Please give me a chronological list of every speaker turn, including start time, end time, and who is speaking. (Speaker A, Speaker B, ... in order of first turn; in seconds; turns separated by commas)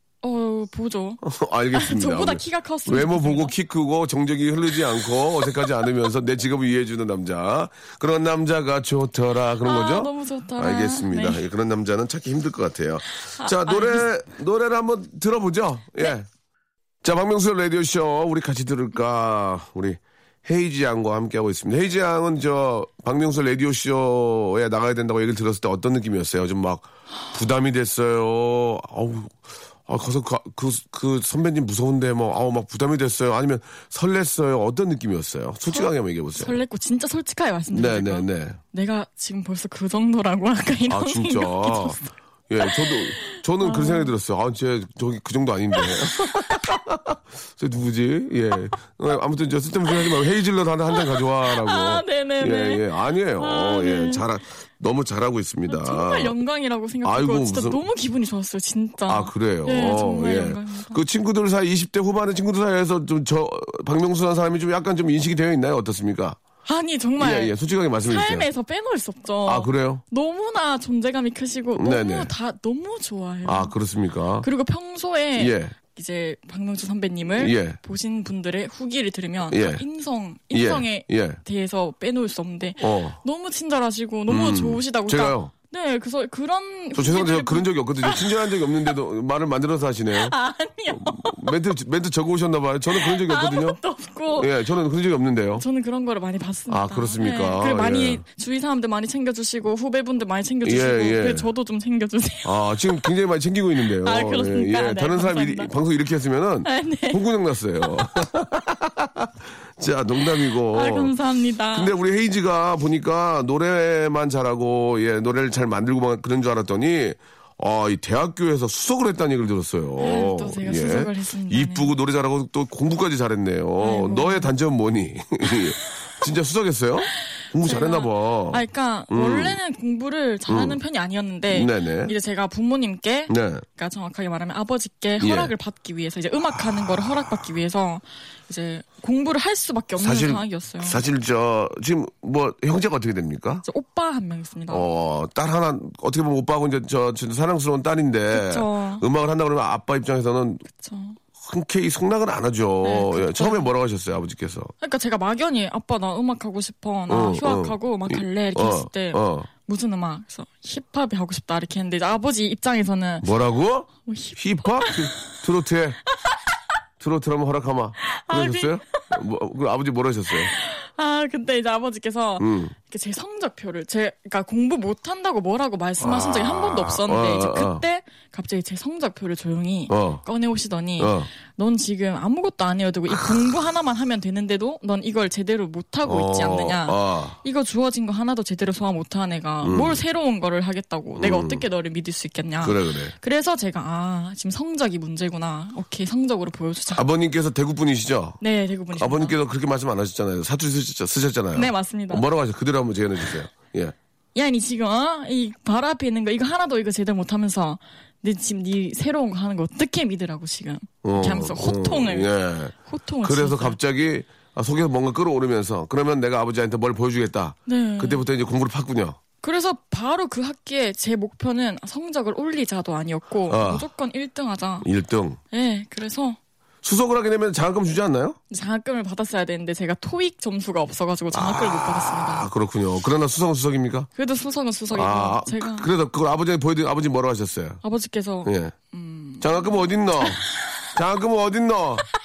Speaker A: 0.2-1.2, Speaker B: 1.2-16.3, Speaker A: 1.7-3.5, Speaker A: 9.6-11.4, Speaker A: 13.3-14.1, Speaker B: 17.0-36.6, Speaker A: 35.7-44.1, Speaker B: 37.7-38.6, Speaker B: 40.9-56.4, Speaker A: 45.8-46.6, Speaker A: 50.9-52.9, Speaker A: 53.4-54.2, Speaker A: 55.7-61.0, Speaker B: 57.0-57.8, Speaker B: 59.1-66.4, Speaker A: 66.7-73.7, Speaker B: 67.2-68.5, Speaker B: 69.5-70.0, Speaker B: 71.8-72.3, Speaker B: 73.5-74.5, Speaker A: 74.4-88.6, Speaker B: 75.4-75.8, Speaker B: 77.4-77.8, Speaker B: 79.5-79.8, Speaker B: 80.5-81.4, Speaker B: 82.8-83.2, Speaker B: 84.3-85.5, Speaker B: 87.0-90.3, Speaker A: 90.1-91.5, Speaker B: 90.9-93.8, Speaker A: 92.9-94.5, Speaker B: 94.3-95.7, Speaker A: 95.6-102.6, Speaker B: 96.7-98.2, Speaker B: 100.6-101.5, Speaker B: 102.4-111.1, Speaker A: 104.0-105.7, Speaker A: 106.7-107.2, Speaker A: 110.5-111.9, Speaker B: 111.7-129.6, Speaker A: 120.0-122.0, Speaker A: 123.8-124.5, Speaker A: 127.6-141.0, Speaker B: 130.5-130.8, Speaker B: 131.5-132.1, Speaker B: 133.3-133.6, Speaker B: 135.2-135.5, Speaker B: 140.0-143.6, Speaker A: 143.6-144.9, Speaker B: 144.7-150.6, Speaker A: 148.3-149.0, Speaker A: 150.7-151.2, Speaker B: 151.4-154.7, Speaker A: 152.8-153.7, Speaker A: 154.8-163.3, Speaker B: 157.1-159.5, Speaker B: 163.2-166.0, Speaker A: 164.0-165.3, Speaker B: 167.0-170.5, Speaker A: 168.1-169.2, Speaker A: 170.3-197.1, Speaker B: 172.4-172.7, Speaker B: 176.0-177.8, Speaker B: 179.9-180.2, Speaker B: 181.0-181.3, Speaker B: 186.1-187.4, Speaker B: 189.6-190.0, Speaker B: 191.2-191.7, Speaker B: 192.6-193.2, Speaker B: 196.9-198.4, Speaker A: 198.4-199.4, Speaker B: 198.9-203.9, Speaker A: 201.5-202.2, Speaker A: 204.3-212.3, Speaker B: 211.0-219.2, Speaker A: 212.8-213.8, Speaker A: 217.7-218.2, Speaker A: 219.4-224.9, Speaker B: 223.5-223.9, Speaker B: 224.8-225.4, Speaker A: 225.5-226.4, Speaker B: 226.8-228.4, Speaker A: 228.5-232.5, Speaker B: 231.3-234.1, Speaker A: 234.2-235.9, Speaker B: 234.9-237.8, Speaker A: 237.8-240.5, Speaker B: 238.4-238.7, Speaker B: 239.4-242.1